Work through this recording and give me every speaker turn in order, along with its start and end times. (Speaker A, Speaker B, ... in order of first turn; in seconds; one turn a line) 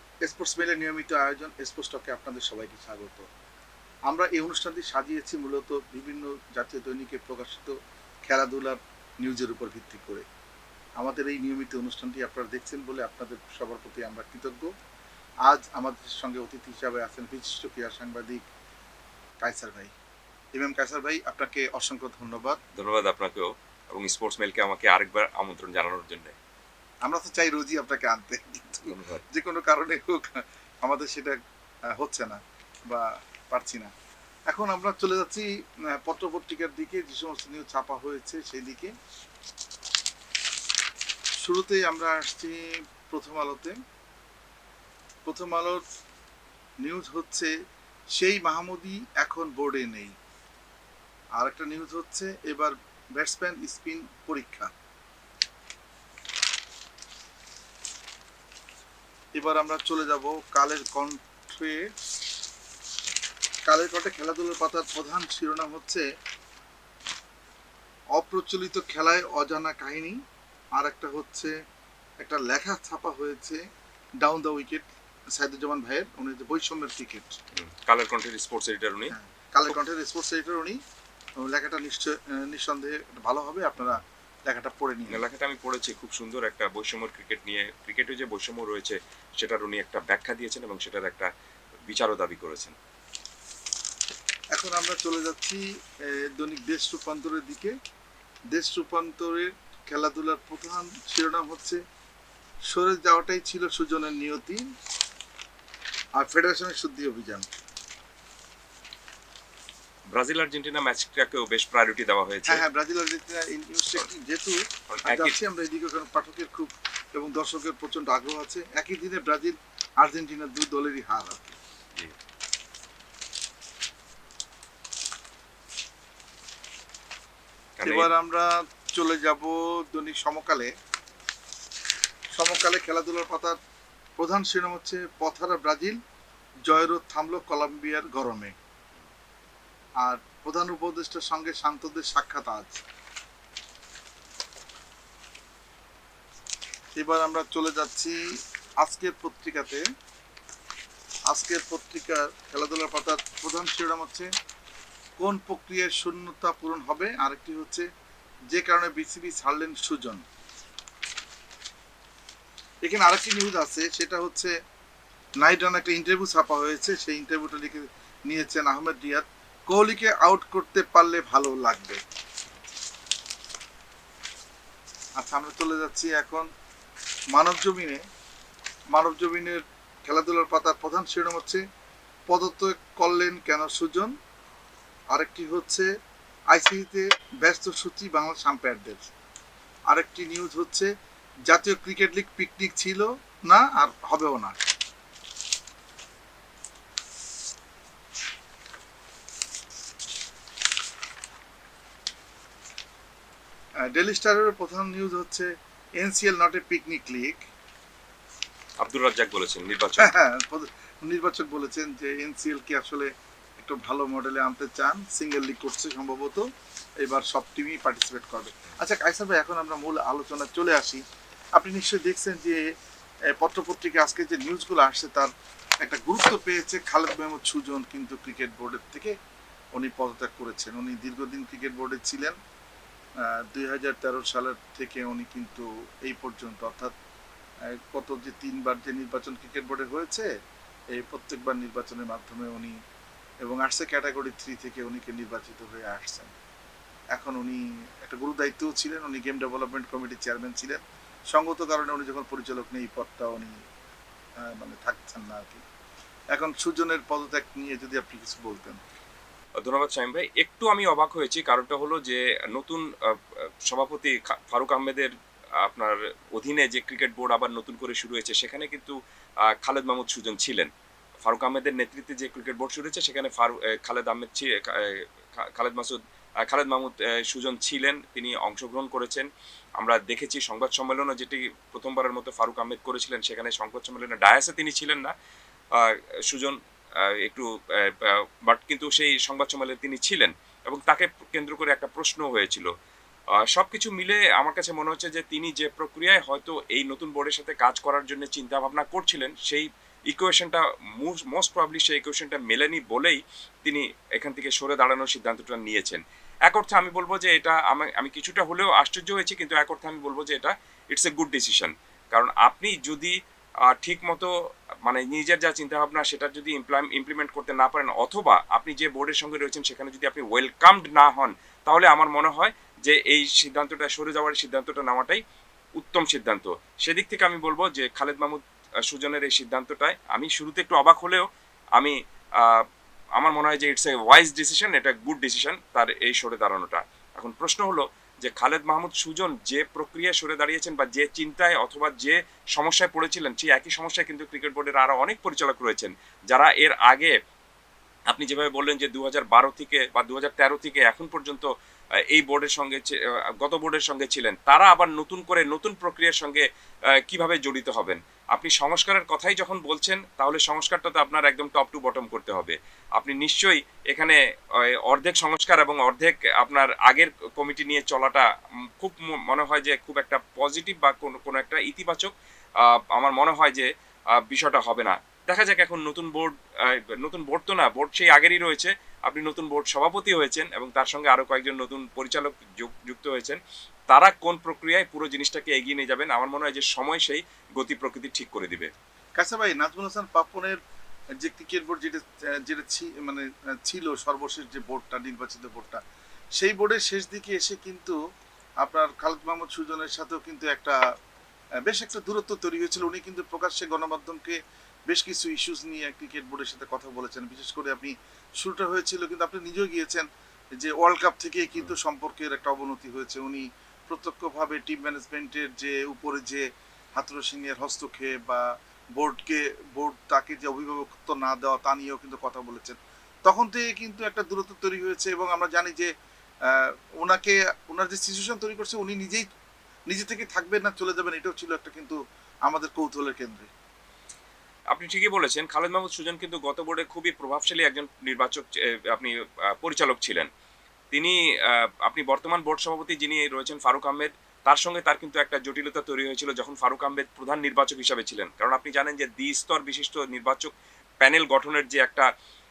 Speaker A: 0.2-3.3
Speaker A: 4.1-7.7
Speaker A: 8.3-10.2
Speaker A: 11.0-14.7
Speaker A: 15.5-18.4
Speaker A: 19.4-19.9
Speaker A: 20.5-22.6
Speaker B: 22.8-26.4
Speaker A: 27.0-31.4
Speaker B: 28.8-29.2
Speaker A: 31.9-33.9
Speaker A: 34.5-38.9
Speaker A: 41.4-43.7
Speaker A: 45.2-45.8
Speaker A: 46.8-47.5
Speaker A: 48.1-50.1
Speaker A: 51.4-54.7
Speaker A: 59.4-61.9
Speaker A: 63.7-66.0
Speaker A: 68.2-70.2
Speaker A: 70.8-71.6
Speaker A: 72.2-73.6
Speaker A: 74.2-77.4
Speaker B: 77.5-79.1
Speaker A: 79.1-80.8
Speaker A: 81.4-85.2
Speaker B: 85.1-92.8
Speaker A: 94.5-97.7
Speaker A: 98.5-101.8
Speaker A: 102.7-104.7
Speaker A: 106.2-107.5
Speaker B: 110.1-112.6
Speaker A: 112.5-121.6
Speaker B: 114.9-115.4
Speaker B: 127.8-128.1
Speaker A: 127.8-130.7
Speaker A: 132.3-133.6
Speaker A: 134.2-136.0
Speaker A: 136.7-138.6
Speaker A: 140.0-142.8
Speaker A: 147.0-148.2
Speaker A: 148.8-149.8
Speaker A: 151.3-154.3
Speaker A: 155.2-157.9
Speaker A: 158.5-160.2
Speaker A: 162.8-164.5
Speaker A: 165.4-172.0
Speaker A: 175.2-176.5
Speaker A: 177.3-178.0
Speaker A: 178.9-181.6
Speaker A: 182.3-184.1
Speaker A: 185.1-185.9
Speaker A: 186.5-189.1
Speaker A: 189.9-190.9
Speaker A: 191.5-194.5
Speaker A: 203.9-207.4
Speaker B: 208.8-210.1
Speaker A: 210.0-216.5
Speaker A: 217.0-221.0
Speaker A: 221.6-222.6
Speaker A: 223.3-225.3
Speaker A: 225.8-229.1
Speaker A: 229.8-232.4
Speaker A: 233.2-236.9
Speaker A: 237.7-240.3
Speaker A: 240.9-242.8
Speaker A: 243.4-246.3
Speaker A: 247.1-250.8
Speaker A: 251.3-253.5
Speaker A: 254.4-255.6
Speaker A: 256.3-258.8
Speaker B: 259.6-270.7
Speaker B: 271.2-279.3
Speaker B: 279.8-285.1
Speaker B: 285.7-292.7
Speaker B: 293.4-314.3
Speaker B: 314.9-325.2
Speaker B: 325.8-332.6
Speaker B: 333.2-347.1
Speaker B: 348.1-368.3
Speaker B: 368.8-383.4
Speaker B: 383.9-388.7
Speaker A: 389.2-390.6
Speaker A: 391.2-395.8
Speaker A: 396.4-398.0
Speaker A: 398.6-400.8
Speaker A: 401.6-404.4
Speaker A: 404.9-416.4
Speaker A: 417.0-418.4
Speaker A: 419.0-425.9
Speaker A: 426.5-429.3
Speaker A: 429.9-432.0
Speaker A: 432.5-433.5
Speaker B: 434.7-440.3
Speaker B: 440.9-452.1